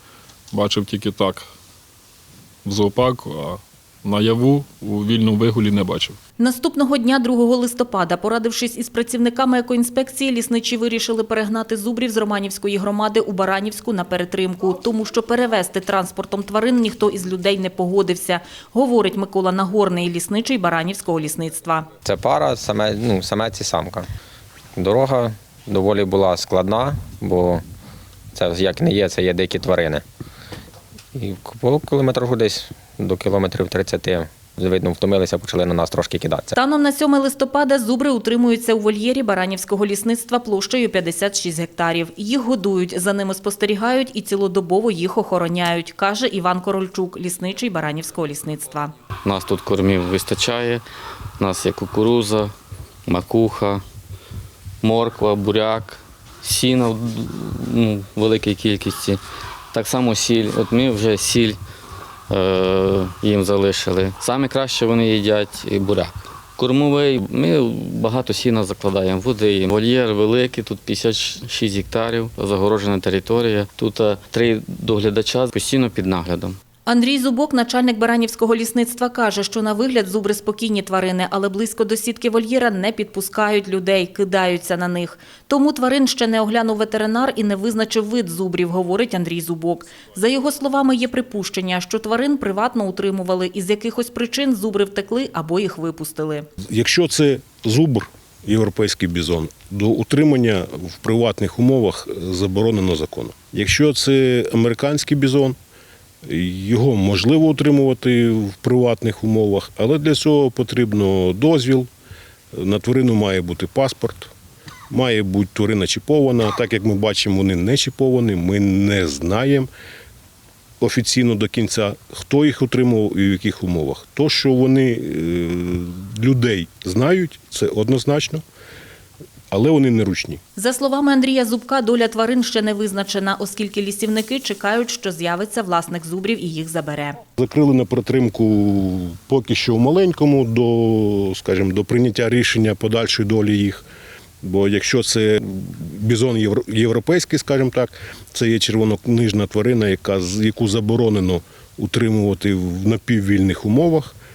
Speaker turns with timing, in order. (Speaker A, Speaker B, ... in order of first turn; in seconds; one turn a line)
Speaker A: 0.5-1.4
Speaker A: 2.6-6.2
Speaker B: 6.4-21.9
Speaker C: 22.1-24.1
Speaker C: 24.8-27.6
Speaker C: 28.3-30.0
Speaker C: 31.1-36.5
Speaker B: 36.5-48.9
Speaker D: 49.2-50.8
Speaker D: 51.4-52.5
Speaker D: 53.1-53.8
Speaker D: 54.8-59.2
Speaker D: 59.7-61.6
Speaker D: 62.3-76.6
Speaker B: 76.9-96.5
Speaker E: 96.7-105.5
Speaker E: 106.2-111.9
Speaker E: 112.5-114.3
Speaker E: 114.9-119.7
Speaker E: 120.8-128.4
Speaker E: 129.5-130.4
Speaker B: 130.6-137.2
Speaker E: 137.4-143.8
Speaker E: 144.4-154.1